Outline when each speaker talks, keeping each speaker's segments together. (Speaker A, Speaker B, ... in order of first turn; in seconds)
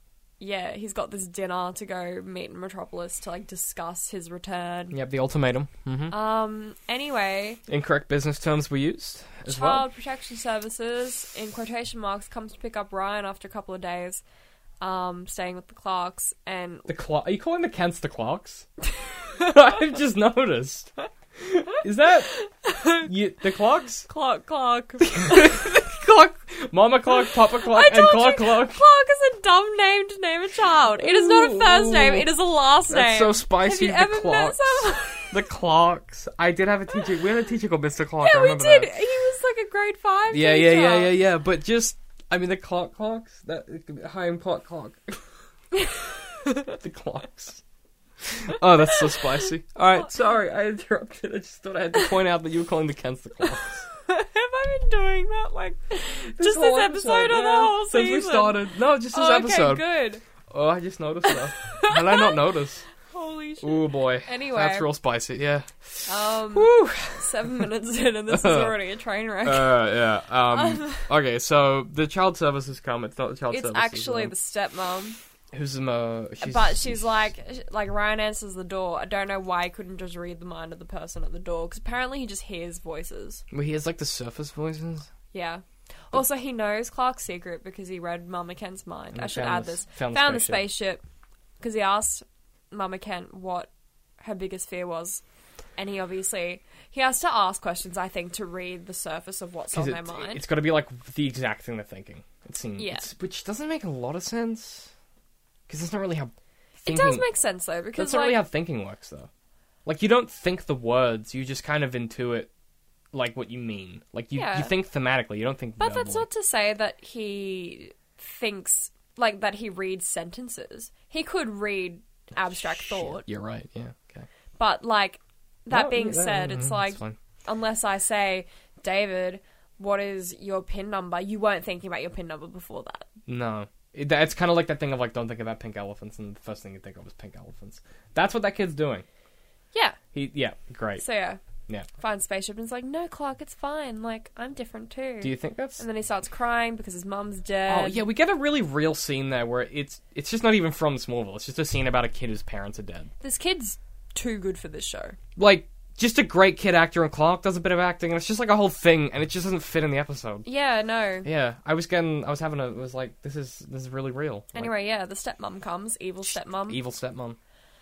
Speaker A: 0.4-5.0, 6.1-7.6, 9.5-14.2, 14.8-16.9, 22.3-23.1, 24.1-25.6, 27.6-35.4, 38.2-41.1, 46.5-46.8, 48.9-49.2, 54.0-60.2, 61.3-62.4, 63.1-64.9, 66.1-69.9, 70.5-71.1, 73.5-75.2, 76.4-83.4, 85.3-91.0, 91.6-95.2, 95.8-100.4, 102.8-103.1, 106.8-108.4, 114.3-114.7, 115.8-123.3, 124.6-133.1, 139.7-140.0, 141.0-141.4, 142.0-148.0, 153.2-155.2, 160.4-161.3, 164.5-166.8
Speaker B: 4.9-6.2, 7.7-9.9, 16.9-18.7, 19.4-22.3, 23.1-24.1, 25.0-28.8, 31.0-32.4, 32.9-38.9, 40.3-45.3, 46.7-47.6, 48.2-53.9, 56.4-59.8, 60.5-62.9, 63.6-67.7, 68.3-68.8, 69.5-74.3, 75.5-77.3, 83.5-85.1, 89.1-90.7, 99.7-104.9, 105.7-106.3, 106.8-107.2, 108.0-109.3, 109.8-112.5, 113.1-116.3, 122.8-124.3, 125.7-127.2, 133.3-139.1, 140.1-141.0, 145.2-145.8, 147.7-153.1, 155.4-160.5, 161.2-164.7, 166.7-167.4